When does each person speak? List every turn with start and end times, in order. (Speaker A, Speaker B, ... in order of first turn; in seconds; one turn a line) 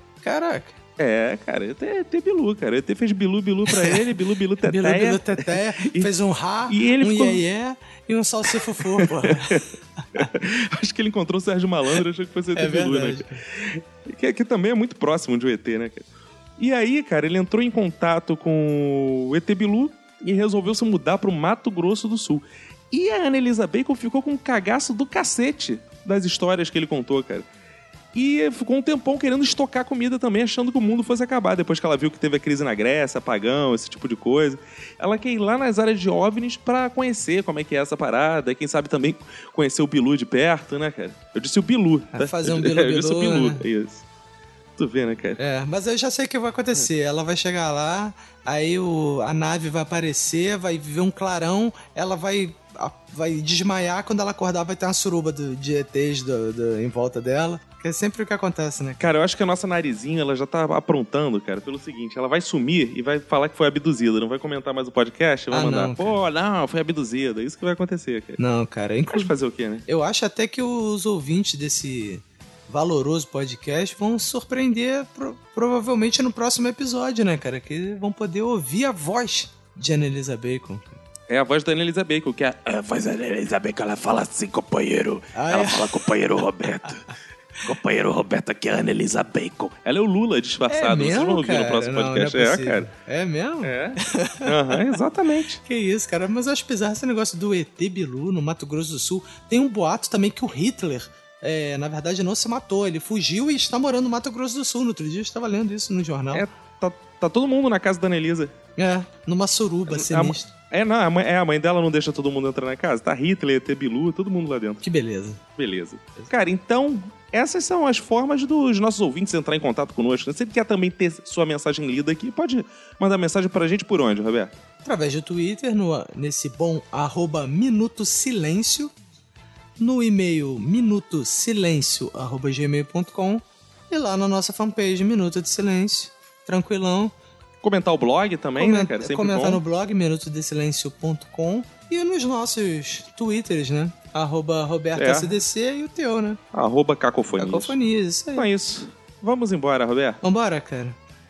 Speaker A: 0.2-0.8
Speaker B: 1.0-6.1
Speaker A: 3.6-10.3
Speaker B: 6.7-7.4
Speaker B: 9.0-9.6
Speaker B: 10.2-16.0
Speaker A: 12.5-13.3
Speaker B: 16.6-27.4
Speaker B: 28.1-44.0
Speaker A: 42.1-43.6
Speaker B: 44.8-45.4
Speaker A: 45.4-59.0
Speaker B: 59.0-68.4
Speaker A: 65.5-66.2
Speaker A: 68.4-69.3
Speaker B: 69.1-69.8
Speaker A: 69.9-80.9
Speaker B: 81.3-87.0
Speaker A: 85.3-87.0
Speaker B: 87.6-92.9
Speaker A: 90.7-95.0
Speaker B: 93.6-95.6
Speaker A: 95.6-106.5
Speaker B: 106.3-108.5
Speaker A: 108.8-110.5
Speaker B: 109.9-114.8
Speaker A: 114.8-115.4
Speaker B: 115.6-124.5
Speaker A: 124.8-128.9
Speaker A: 129.8-137.1
Speaker B: 137.6-139.6
Speaker A: 138.5-146.4
Speaker B: 144.9-145.3
Speaker B: 146.5-147.7
Speaker A: 147.3-148.5
Speaker B: 148.3-150.2
Speaker A: 150.2-151.0